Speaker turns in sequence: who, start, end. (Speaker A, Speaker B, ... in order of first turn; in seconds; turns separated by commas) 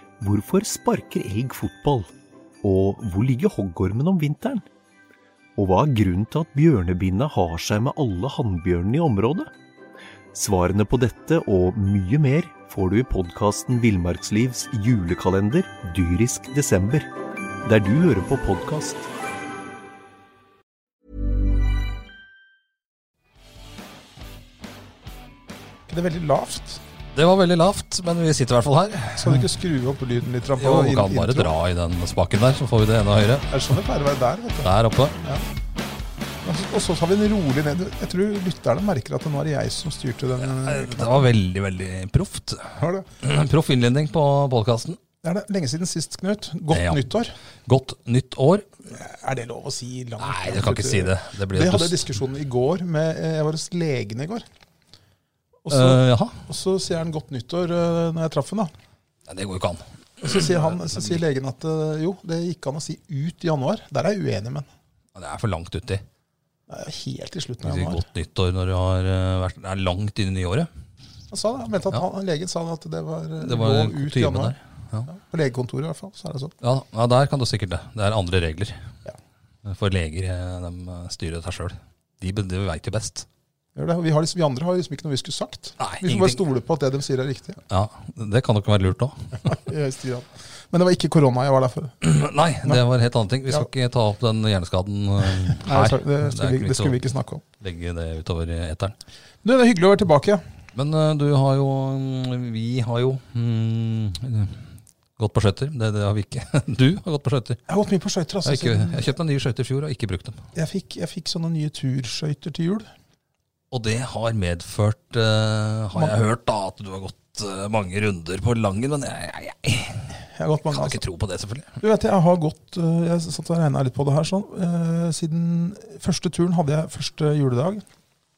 Speaker A: 0.2-2.1, Speaker A: 2.6-4.7, Speaker A: 5.6-9.5, Speaker A: 10.3-17.1, Speaker A: 17.6-19.1, Speaker B: 25.9-26.8, Speaker C: 27.1-29.5, Speaker B: 29.2-31.5, Speaker C: 30.6-33.5, Speaker B: 33.5-35.4, Speaker C: 34.6-35.2, Speaker B: 36.4-41.3, Speaker C: 40.4-45.0, Speaker B: 42.8-43.1, Speaker B: 45.2-47.3, Speaker C: 46.7-47.0, Speaker C: 47.7-48.7, Speaker B: 48.9-54.5, Speaker C: 50.2-52.0, Speaker B: 55.6-58.7, Speaker C: 55.7-56.4, Speaker C: 59.3-61.1, Speaker B: 60.2-64.7, Speaker C: 65.2-66.0, Speaker B: 66.7-68.0, Speaker C: 67.6-70.7, Speaker B: 71.3-74.6, Speaker C: 73.4-75.1, Speaker B: 75.1-76.5, Speaker C: 76.6-78.8, Speaker C: 79.6-83.3, Speaker B: 83.8-87.6, Speaker C: 85.8-86.4, Speaker C: 87.7-89.5, Speaker B: 89.4-92.0, Speaker C: 92.0-97.0, Speaker B: 95.5-97.4, Speaker C: 97.6-99.0, Speaker B: 99.4-100.4, Speaker C: 100.8-104.7, Speaker C: 105.2-107.6, Speaker B: 107.7-109.1, Speaker C: 108.4-110.4, Speaker B: 110.5-112.9, Speaker C: 113.7-120.2, Speaker B: 120.2-121.0, Speaker C: 120.7-121.8, Speaker B: 121.8-127.8